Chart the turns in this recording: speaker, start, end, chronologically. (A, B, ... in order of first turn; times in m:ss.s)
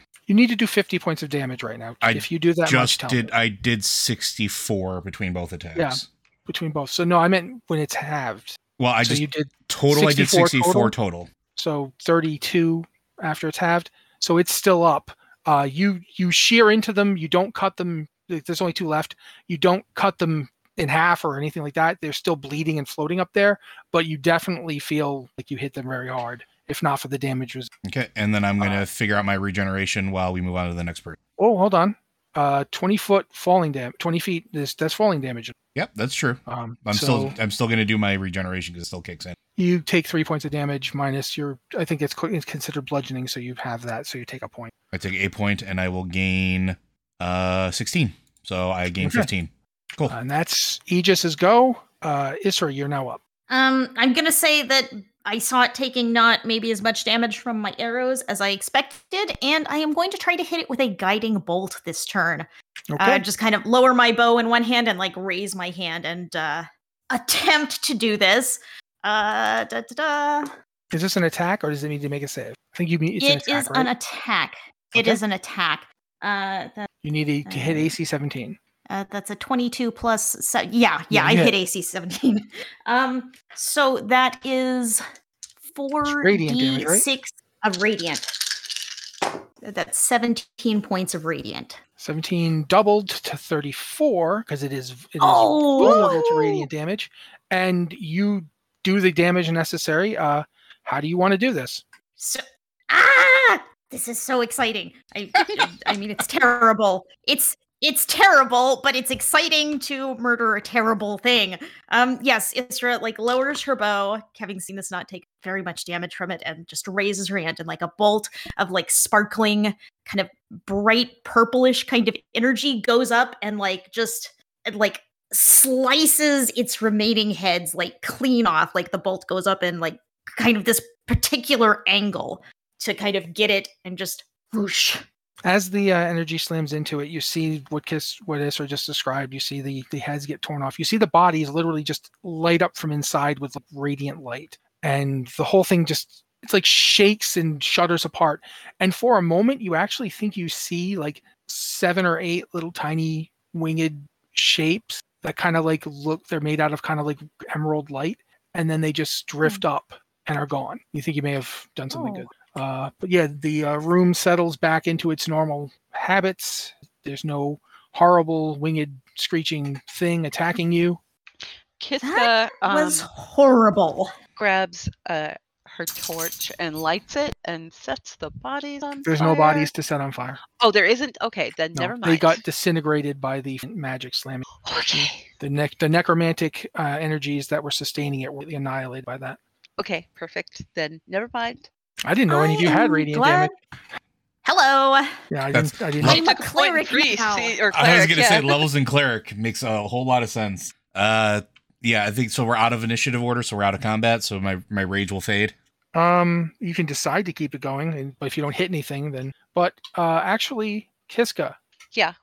0:00.3-0:03.3 A
0:02.0-0:06.1 B
0:05.8-0:10.9 A
0:08.8-0:11.3 B
0:11.5-0:27.7 A
0:27.8-0:31.2 B
0:31.4-0:35.5 A
0:35.7-0:39.4 B
0:36.5-0:37.3 A
0:39.6-0:44.7 A
0:44.9-0:50.2 B
0:49.0-0:49.3 A
0:50.1-0:53.2 A
0:53.5-1:02.5 C
1:02.9-1:03.2 A
1:03.0-1:10.5 C
1:10.9-1:13.9 A
1:13.2-1:16.9 C
1:14.9-1:15.2 A
1:17.0-1:18.6 A
1:17.4-1:17.9 C
1:18.9-1:25.0 C
1:21.1-1:21.5 A
1:25.6-1:28.8 C
1:26.1-1:27.0 A
1:29.6-1:31.8 C
1:32.0-1:41.8 A
1:35.2-1:36.7 C
1:42.2-2:15.0 C
2:15.4-2:51.0 A
2:41.9-2:42.3 C
2:51.8-2:53.1 D
2:52.0-2:54.1 C
2:54.4-2:59.4 D
2:59.0-3:00.4 A
2:59.2-2:59.7 C
3:00.6-3:02.4 D
3:01.7-3:09.4 A
3:04.6-3:05.2 D
3:09.8-3:11.7 D
3:12.0-3:13.5 A
3:12.3-3:13.5 C
3:14.4-3:15.2 C
3:15.3-3:16.2 A
3:15.5-3:16.2 B
3:16.0-3:17.6 C
3:16.1-3:18.6 D
3:17.7-3:25.5 B
3:25.9-3:31.6 A